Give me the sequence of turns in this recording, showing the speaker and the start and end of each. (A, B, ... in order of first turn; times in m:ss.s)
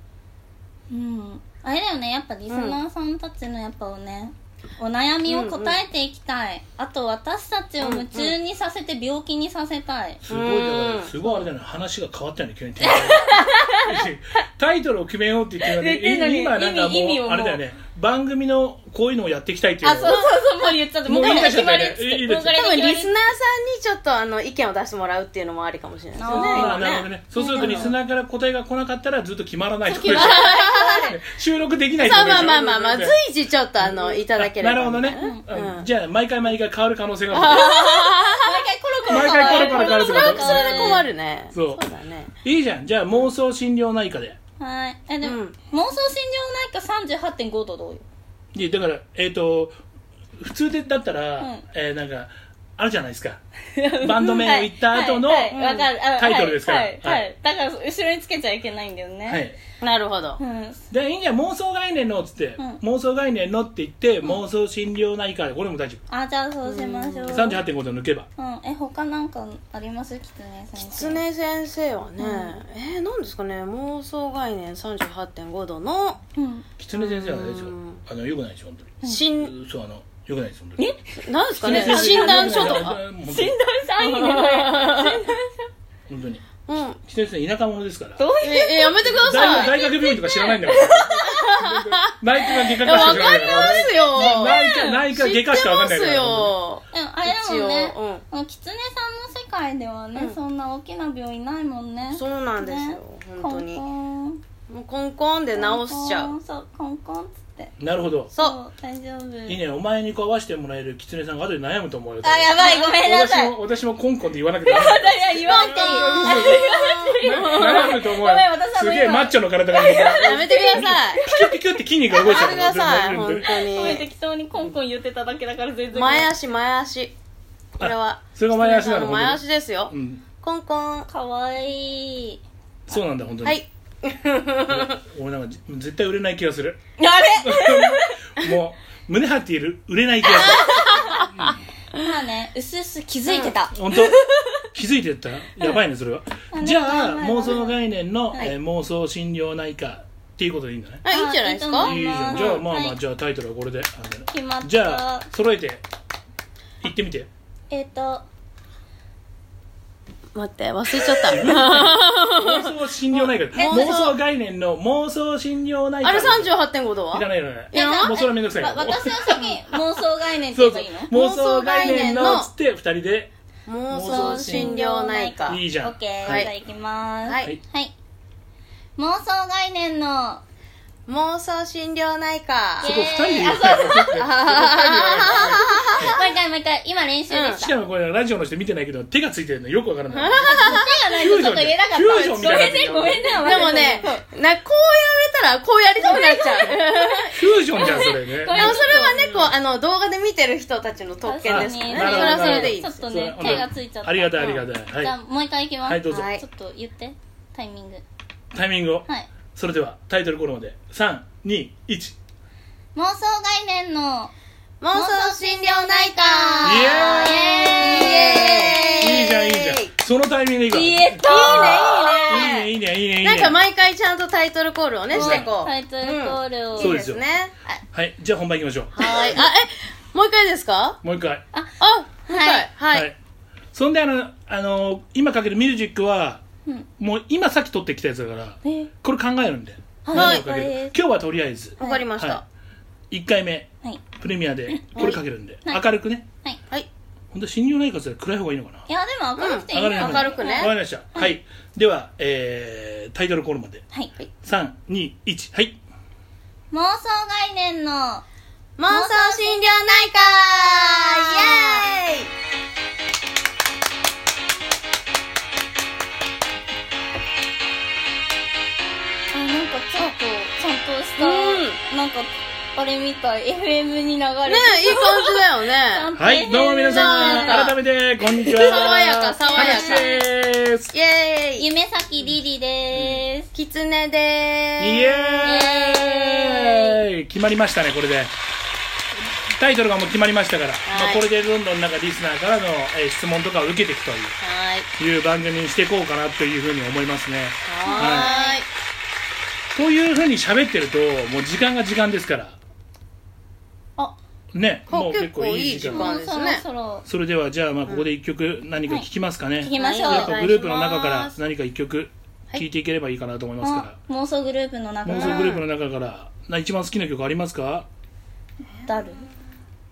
0:00.9-0:10.2 A
0:02.5-0:02.8 B
0:05.3-0:05.8 B
0:07.8-0:08.4 B
0:10.2-0:20.2 C
0:10.3-0:11.1 B
0:12.8-0:13.9 A
0:15.6-0:17.6 A
0:19.8-0:23.1 A
0:20.0-0:20.3 B
0:21.1-0:22.6 C
0:22.5-0:27.9 B
0:26.2-0:26.8 A
0:26.3-0:33.2 C
0:27.3-0:27.9 A
0:29.8-0:31.2 A
0:30.0-0:31.1 B
0:32.0-0:35.9 B
0:33.8-0:37.8 C
0:37.3-0:42.3 B
0:37.5-0:41.0 A
0:39.1-0:41.8 C
0:42.4-0:44.4 C
0:44.6-0:48.0 A
0:45.2-0:45.6 B
0:48.5-0:49.8 C
0:50.4-0:53.4 C
0:53.8-0:59.4 A
0:54.0-0:55.6 C
0:55.5-0:55.9 B
0:56.2-0:57.3 C
0:59.3-0:59.6 C
0:59.8-1:00.4 B
1:00.4-1:00.8 A
1:00.9-1:06.0 C
1:06.1-1:07.6 A
1:06.7-1:07.4 B
1:07.3-1:08.3 C
1:08.4-1:11.2 A
1:10.8-1:16.2 B
1:12.2-1:12.6 A
1:16.4-1:16.7 A
1:16.8-1:20.8 C
1:17.0-1:18.0 B
1:19.0-1:19.5 B
1:21.2-1:23.0 B
1:21.6-1:23.6 C
1:21.6-1:25.6 A
1:24.0-1:25.3 B
1:26.1-1:26.4 C
1:26.7-1:27.0 B
1:27.0-1:28.2 C
1:28.2-1:31.6 A
1:28.4-1:29.8 B
1:29.1-1:36.5 C
1:31.2-1:32.1 B
1:32.5-1:33.2 A
1:32.8-1:38.2 B
1:34.3-1:35.0 A
1:36.9-1:44.4 A
1:42.1-1:43.8 B
1:44.7-1:46.3 B
1:45.6-1:47.7 A
1:47.8-1:48.3 C
1:48.4-1:49.6 A
1:49.5-2:03.5 C
1:52.2-1:53.6 A
1:54.6-2:01.6 A
1:55.5-1:58.0 B
2:00.2-2:01.2 B
2:02.1-2:04.1 B
2:03.4-2:06.3 A
2:05.9-2:07.1 B
2:07.8-2:11.1 B
2:07.8-2:10.2 C
2:11.1-2:12.4 A
2:12.9-2:13.6 C
2:13.4-2:15.0 B
2:14.7-2:16.8 C
2:17.0-2:18.2 A
2:17.4-2:21.6 C
2:20.3-2:22.0 B
2:20.3-2:21.3 A
2:22.0-2:24.6 A
2:23.3-2:23.6 B
2:23.7-2:24.2 C
2:24.7-2:31.0 C
2:26.5-2:27.7 A
2:31.0-2:32.6 B
2:31.1-2:33.0 A
2:31.8-2:35.8 C
2:34.3-2:35.3 A
2:36.8-2:37.3 C
2:37.7-2:38.2 A
2:40.3-2:44.2 B
2:41.2-2:46.5 C
2:43.5-2:44.0 A
2:46.0-2:48.2 B
2:47.1-2:49.8 C
2:47.7-2:51.1 A
2:50.5-2:53.3 C
2:51.1-2:52.5 B
2:53.7-2:55.6 B
2:53.9-2:54.8 C
2:54.0-2:57.9 A
2:55.5-2:56.5 C
2:56.3-2:56.5 B
2:57.3-2:57.5 B
2:59.0-3:00.4 A
3:01.1-3:02.9 B
3:02.8-3:04.2 A
3:02.8-3:06.2 C
3:04.1-3:06.3 B
3:05.0-3:07.7 A
3:07.3-3:07.7 B
3:07.6-3:14.0 C
3:10.1-3:10.9 B
3:10.5-3:14.2 A
3:13.4-3:17.4 B
3:16.0-3:19.3 A
3:17.3-3:19.4 C
3:18.0-3:23.7 B
3:21.2-3:28.0 A
3:21.4-3:25.1 C
3:24.4-3:24.6 B
3:25.8-3:26.3 C
3:26.1-3:26.4 B
3:28.5-3:32.2 C
3:33.0-3:34.3 A
3:34.8-3:39.9 B
3:34.9-3:39.3 A
3:36.6-3:43.6 C
3:40.7-3:42.5 A
3:41.2-3:42.7 B
3:43.2-3:47.5 B
3:45.1-3:45.5 C
3:45.1-3:47.0 A
3:46.8-3:47.2 C
3:47.9-3:49.4 C
3:49.0-3:51.0 B
3:49.0-3:49.3 A
3:51.0-3:51.4 C
3:51.8-3:53.1 B
3:52.3-3:52.7 A
3:53.7-3:56.4 C
3:57.0-4:02.4 C
3:58.6-3:58.9 A
4:00.0-4:01.0 A
4:00.1-4:00.4 B
4:01.8-4:02.1 A
4:01.8-4:02.4 B
4:03.1-4:06.3 C
4:04.7-4:05.8 A
4:07.3-4:08.9 C
4:08.9-4:11.3 A
4:09.4-4:10.8 B
4:09.7-4:13.8 C
4:14.4-4:15.8 C
4:16.7-4:18.2 A
4:18.8-4:22.3 B
4:18.9-4:19.6 A
4:20.6-4:21.9 A
4:29.3-4:37.6 A
4:31.2-4:31.8 B
4:34.5-4:36.1 B
4:36.2-4:40.9 C
4:36.8-4:37.8 B
4:38.4-4:40.1 A
4:38.5-4:40.2 B
4:40.9-4:41.7 B
4:41.6-4:43.5 A
4:42.9-4:43.2 C
4:43.5-4:45.7 B
4:44.8-4:48.3 C
4:45.4-4:47.0 A
4:49.4-4:54.4 C
4:50.9-4:51.2 B
4:54.4-4:54.9 B
4:55.0-4:58.3 C
4:57.7-4:58.7 B
4:57.8-4:58.6 A
4:59.7-5:02.6 C
5:04.5-5:06.2 C
5:04.9-5:06.6 B
5:05.9-5:07.0 A
5:07.1-5:14.0 C
5:09.6-5:10.4 A
5:09.8-5:11.3 B
5:13.6-5:15.5 A
5:15.0-5:17.9 C
5:15.1-5:15.6 B
5:18.7-5:19.4 B
5:18.8-5:19.3 A